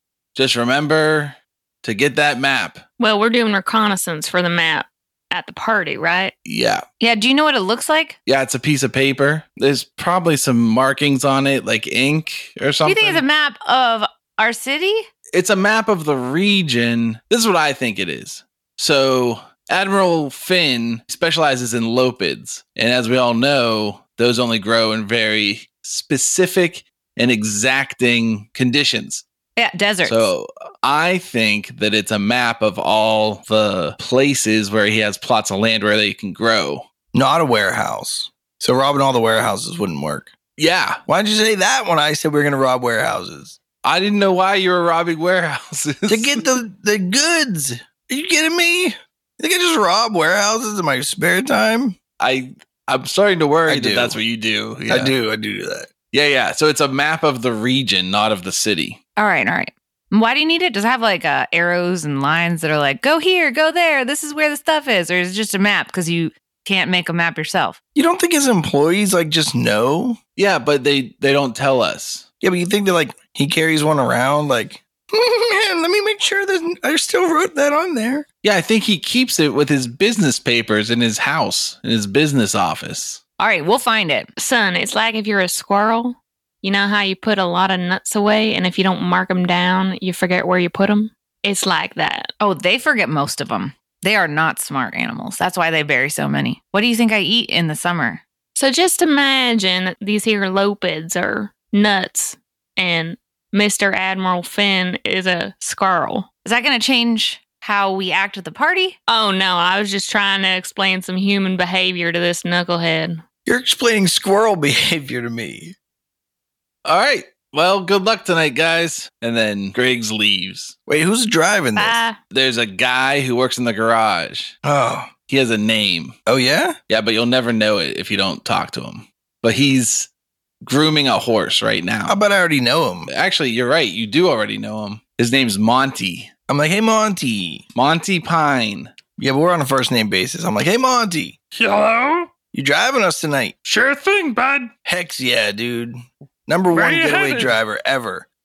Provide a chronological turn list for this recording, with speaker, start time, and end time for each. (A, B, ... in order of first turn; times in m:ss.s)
0:00.3-0:02.8 A
0:03.0-0:06.3 B
0:06.4-0:06.8 A
0:07.0-0:08.2 C
0:08.3-0:13.2 A
0:12.8-0:15.1 C
0:15.3-0:29.2 A
0:29.6-0:30.3 C
0:30.0-0:36.8 A
0:37.1-0:40.3 D
0:40.6-0:41.0 A
0:41.1-0:43.6 D
0:43.8-0:46.4 A
0:46.1-0:52.0 D
0:52.2-0:55.1 A
0:53.6-0:54.2 D
0:54.9-0:55.9 D
0:56.1-0:59.0 A
0:59.2-1:07.8 C
1:07.9-1:10.2 D
1:10.4-1:12.2 A
1:12.4-1:18.2 D
1:18.4-1:23.2 A
1:23.4-1:24.3 C
1:24.4-1:32.3 B
1:32.4-1:38.2 C
1:38.6-1:46.3 B
1:46.4-1:49.0 C
1:49.1-1:53.2 B
1:53.4-1:55.7 D
1:56.8-2:00.7 A
2:00.9-2:02.0 D
2:01.8-2:02.2 B
2:02.3-2:04.5 A
2:04.6-2:05.1 D
2:05.3-2:06.1 A
2:06.2-2:06.8 D
2:06.9-2:10.1 A
2:10.6-2:12.2 A
2:12.1-2:13.1 D
2:13.1-2:16.3 A
2:16.5-2:17.6 D
2:17.7-2:18.9 A
2:19.2-2:21.4 D
2:21.5-2:22.3 E
2:22.5-2:23.5 D
2:23.6-2:24.7 E
2:24.8-2:28.3 D
2:26.7-2:27.6 E